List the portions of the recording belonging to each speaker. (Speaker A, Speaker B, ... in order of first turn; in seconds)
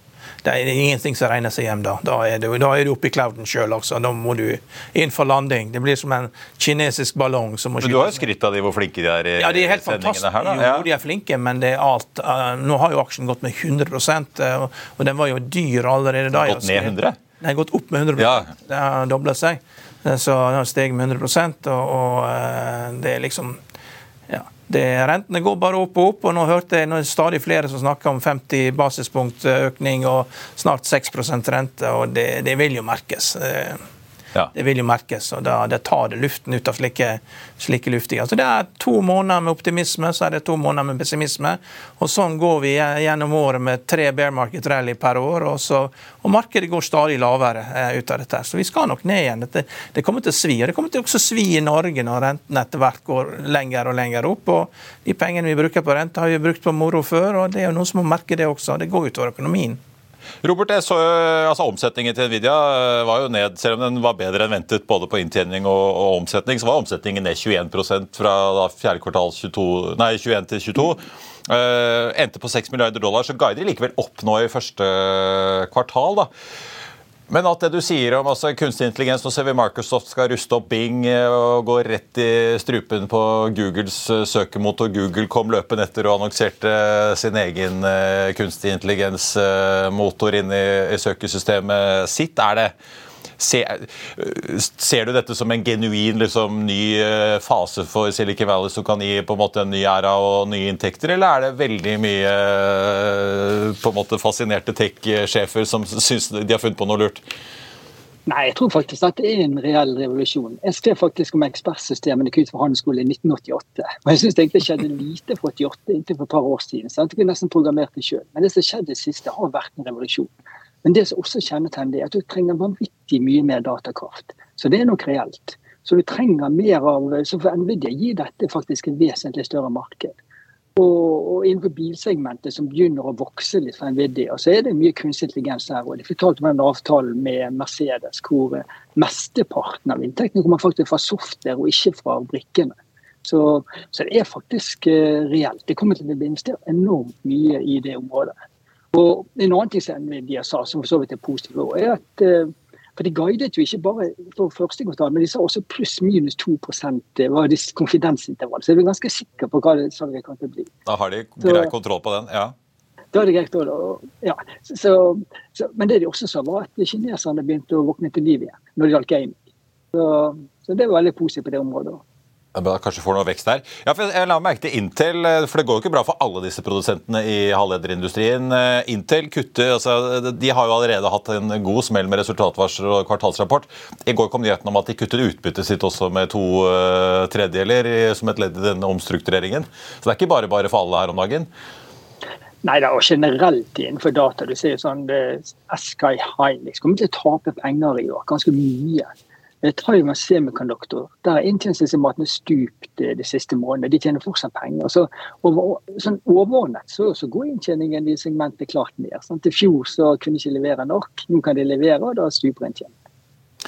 Speaker A: 0.4-8.2, 9.4-23.6, 24.3-33.8, 34.5-59.8
Speaker B: 7.8-10.9, 16.3-17.2, 18.2-18.5, 60.4-76.3, 77.3-92.7, 93.4-107.2, 160.8-162.5, 172.5-191.5
Speaker C: 108.3-120.3, 120.8-130.2, 130.8-148.3, 148.9-160.7, 161.4-161.7, 163.1-169.4, 169.9-172.0, 192.6-199.1, 199.6-212.9